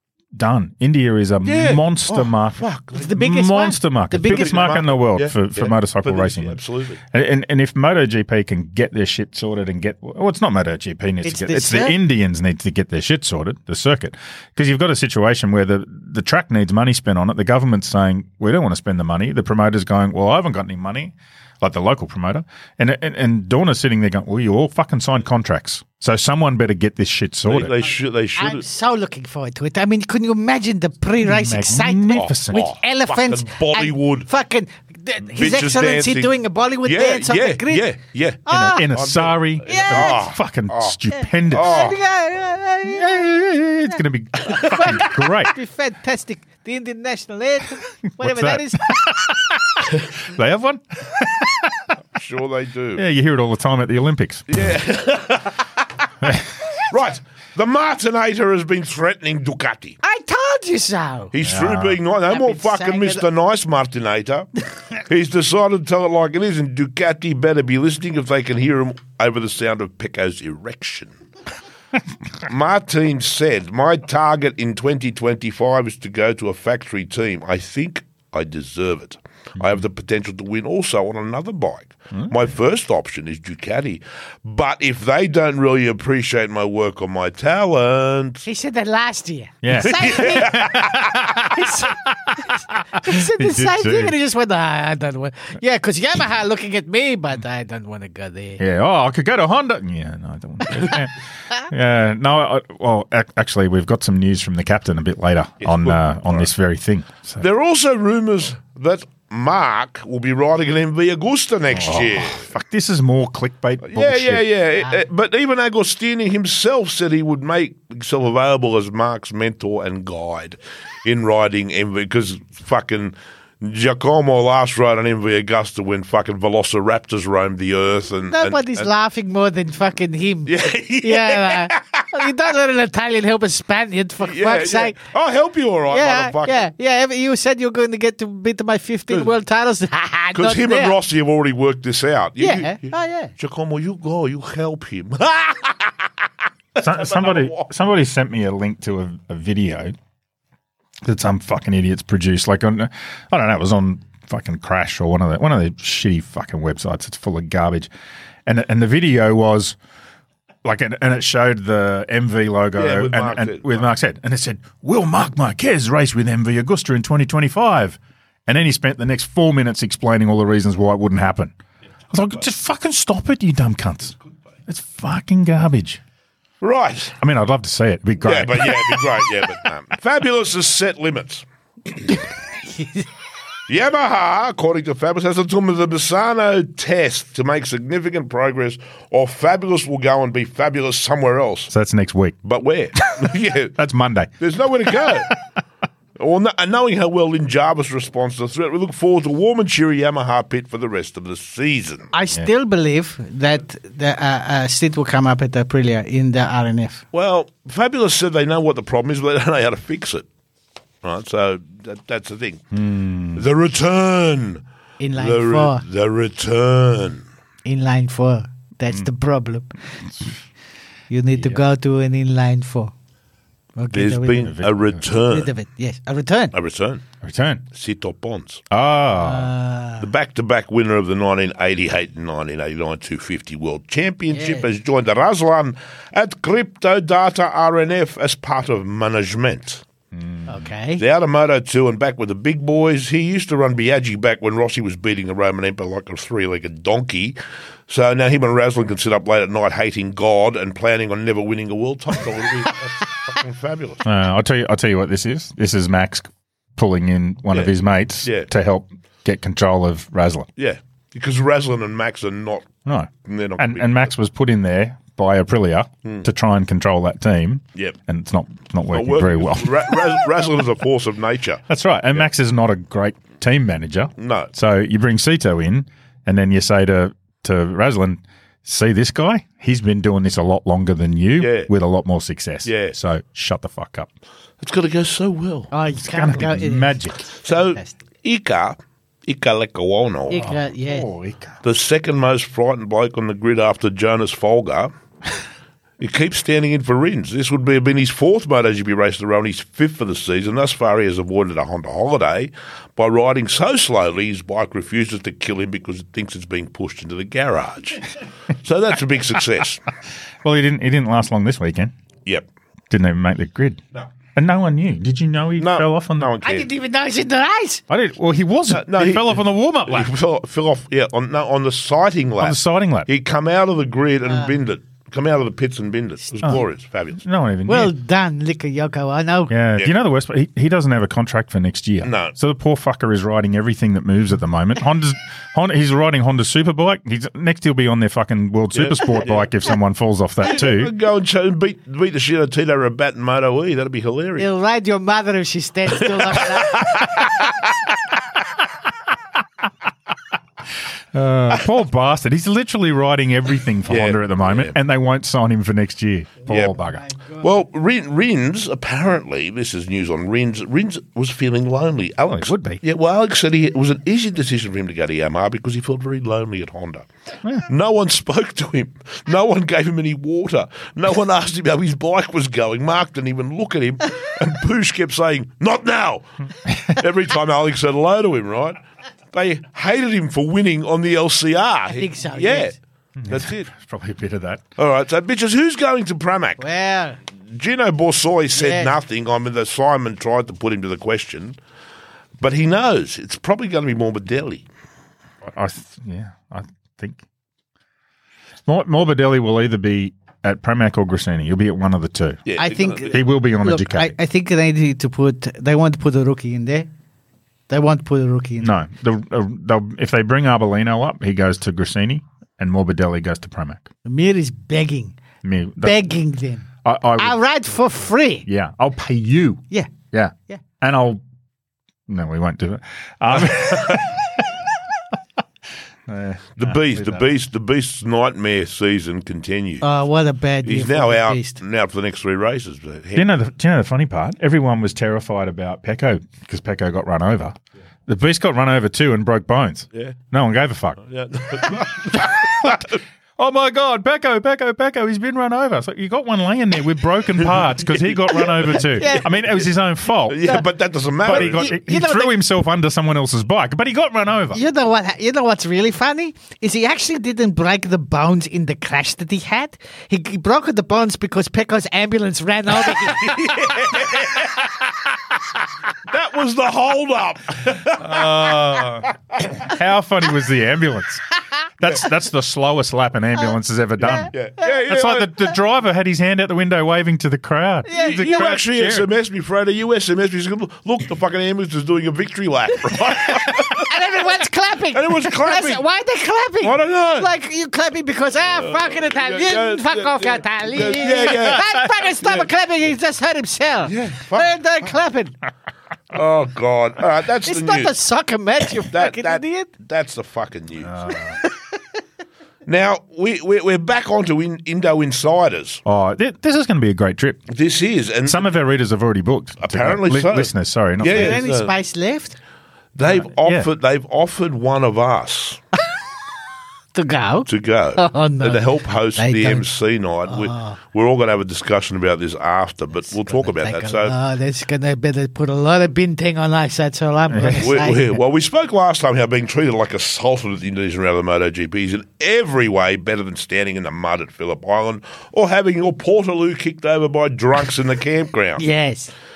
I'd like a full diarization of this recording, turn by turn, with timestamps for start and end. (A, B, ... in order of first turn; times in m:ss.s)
0:00.3-0:06.6 A
0:01.4-0:03.2 B
0:02.9-0:04.5 C
0:04.2-0:07.0 B
0:07.1-0:27.7 A
0:11.2-0:12.0 C
0:27.5-0:28.6 B
0:28.4-0:37.9 C
0:31.2-0:32.7 A
0:32.1-0:34.3 B
0:35.4-0:36.3 B
0:36.8-0:41.0 B
0:38.5-0:38.8 C
0:38.5-0:41.8 A
0:39.6-0:40.2 C
0:41.2-0:43.3 C
0:41.5-0:42.0 B
0:42.8-0:45.5 A
0:44.4-0:49.0 C
0:48.2-0:51.9 A
0:52.1-0:53.0 B
0:53.0-0:54.7 A
0:54.5-0:55.9 B
0:56.2-0:56.5 A
0:56.8-1:00.0 B
1:00.0-1:01.3 C
1:01.3-1:04.5 B
1:01.4-1:02.0 A
1:02.3-1:03.2 C
1:05.0-1:11.1 B
1:12.5-1:28.4 B
1:28.4-1:30.9 C
1:29.6-1:32.4 A
1:29.8-1:31.4 B
1:31.5-1:32.0 C
1:32.5-1:38.6 C
1:33.0-1:34.1 A
1:38.6-1:47.4 A
1:45.6-1:46.5 B
1:47.4-1:52.5 B
1:51.7-1:54.4 A
1:53.8-2:08.9 B
2:08.3-2:15.0 C
2:10.4-2:12.2 B
2:14.2-2:16.6 B
2:15.9-2:21.0 C
2:20.3-2:26.1 B
2:22.4-2:23.3 C
2:26.7-2:27.7 B
2:26.8-2:30.0 A
2:31.0-2:37.9 A
2:38.4-2:39.8 A
2:40.6-2:51.5 A
2:42.8-2:43.9 B
2:52.1-2:56.0 A
2:56.6-2:57.2 B
2:57.2-2:59.2 A
2:58.2-3:01.4 B
3:02.1-3:03.1 C
3:03.7-3:11.7 B
3:11.7-3:12.4 A
3:12.4-3:13.8 B
3:13.8-3:14.3 A
3:14.4-3:15.3 B
3:14.9-3:15.4 A
3:16.2-3:22.1 B
3:22.1-3:27.0 C
3:27.1-3:30.2 B
3:31.0-3:32.6 B
3:32.7-3:33.4 A
3:33.3-3:34.6 B
3:35.0-3:35.8 C
3:35.2-3:37.2 B
3:37.6-3:39.8 C
3:40.1-3:40.4 A
3:41.1-3:42.9 C
3:43.8-3:44.6 C
3:43.9-3:45.5 B
3:44.4-3:45.0 A
3:45.1-3:46.5 C
3:46.5-3:47.0 B
3:47.2-3:47.6 A
3:47.7-3:48.6 B
3:48.7-3:49.5 A
3:49.2-3:50.1 C
3:50.0-3:59.8 B
3:54.3-3:54.6 C
4:00.1-4:00.5 A
4:00.5-4:01.0 C
4:01.0-4:07.4 B
4:07.9-4:14.0 B
4:14.0-4:20.5 A
4:18.2-4:18.5 B
4:20.6-4:22.7 B
4:22.8-4:30.2 A
4:23.2-4:24.0 B
4:28.9-4:31.6 B
4:31.7-4:44.1 A
4:34.2-4:34.5 B
4:41.4-4:41.7 B
4:42.6-4:43.0 B
4:44.6-4:45.7 B
4:45.7-4:47.9 C
4:46.0-4:47.2 A
4:47.4-4:50.4 B
4:50.3-4:51.1 C
4:50.4-4:51.6 A
4:51.6-4:54.9 B
4:56.0-5:09.8 B
5:10.4-5:11.9 A
5:12.9-5:13.8 A
5:14.4-5:16.3 A
5:15.6-5:16.7 B
5:16.4-5:17.8 C
5:17.9-5:20.1 A
5:18.7-5:27.2 B
5:22.4-5:23.1 A
5:27.2-5:27.9 A
5:27.7-5:29.5 C
5:29.5-5:40.9 A
5:32.0-5:32.4 B
5:38.7-5:39.5 B
5:40.4-5:44.5 B
5:44.4-5:47.2 C
5:46.0-5:47.7 B
5:51.1-5:57.0 A
5:53.9-5:54.7 B
5:56.5-5:56.8 B
5:57.0-5:57.4 C
5:57.4-6:07.1 B
6:02.2-6:02.8 A
6:07.6-6:16.2 B
6:16.7-6:17.0 A
6:16.8-6:18.8 B
6:19.3-6:22.7 B
6:21.9-6:22.8 C
6:23.2-6:24.6 A
6:23.3-6:23.7 B
6:24.8-6:26.6 B
6:26.6-6:27.2 C
6:27.5-6:31.6 B
6:28.5-6:28.9 C
6:32.4-6:34.6 B
6:35.4-6:37.2 A
6:38.6-6:42.4 A
6:42.4-6:43.2 B
6:42.6-6:46.9 C
6:43.1-6:44.2 A
6:47.7-6:48.7 C
6:48.6-6:53.9 A
6:54.0-6:55.2 C
6:55.4-6:56.1 A
6:55.8-6:56.7 C
6:56.8-6:57.4 A
6:57.2-6:58.5 C
6:58.4-7:01.2 A
7:02.1-7:04.5 A
7:06.1-7:07.2 A
7:06.6-7:09.9 B
7:09.8-7:11.6 C
7:10.6-7:13.3 B
7:13.1-7:17.6 A
7:18.1-7:21.0 A
7:21.0-7:23.0 B
7:22.1-7:30.6 A
7:28.4-7:28.8 B
7:28.9-7:29.3 C
7:30.3-7:31.7 B
7:31.2-7:34.6 A
7:31.2-7:32.3 C
7:34.5-7:43.6 C
7:42.9-7:44.8 B
7:46.1-7:49.5 B
7:48.0-7:51.2 A
7:51.8-7:59.1 A
7:54.0-7:55.4 B
7:57.9-7:58.6 C
7:57.9-8:04.0 B
8:02.9-8:15.4 C
8:04.9-8:05.8 B
8:06.6-8:07.3 B
8:08.5-8:11.7 B
8:11.5-8:11.8 A
8:12.2-8:12.5 B
8:13.9-8:14.6 B
8:16.1-8:17.9 B
8:17.4-8:19.7 C
8:18.8-8:21.1 B
8:20.8-8:21.4 A
8:21.3-8:21.6 C
8:22.6-8:25.8 B
8:25.9-8:27.4 A
8:27.5-8:28.5 B
8:28.2-8:31.4 A
8:29.6-8:31.7 B
8:31.0-8:32.4 C
8:32.9-8:35.6 B
8:33.3-8:33.7 A
8:36.9-8:39.6 C
8:37.4-8:44.1 B
8:40.3-8:40.8 C
8:43.1-8:48.1 C
8:47.3-8:47.6 A
8:47.6-8:58.6 B
8:58.6-8:59.1 C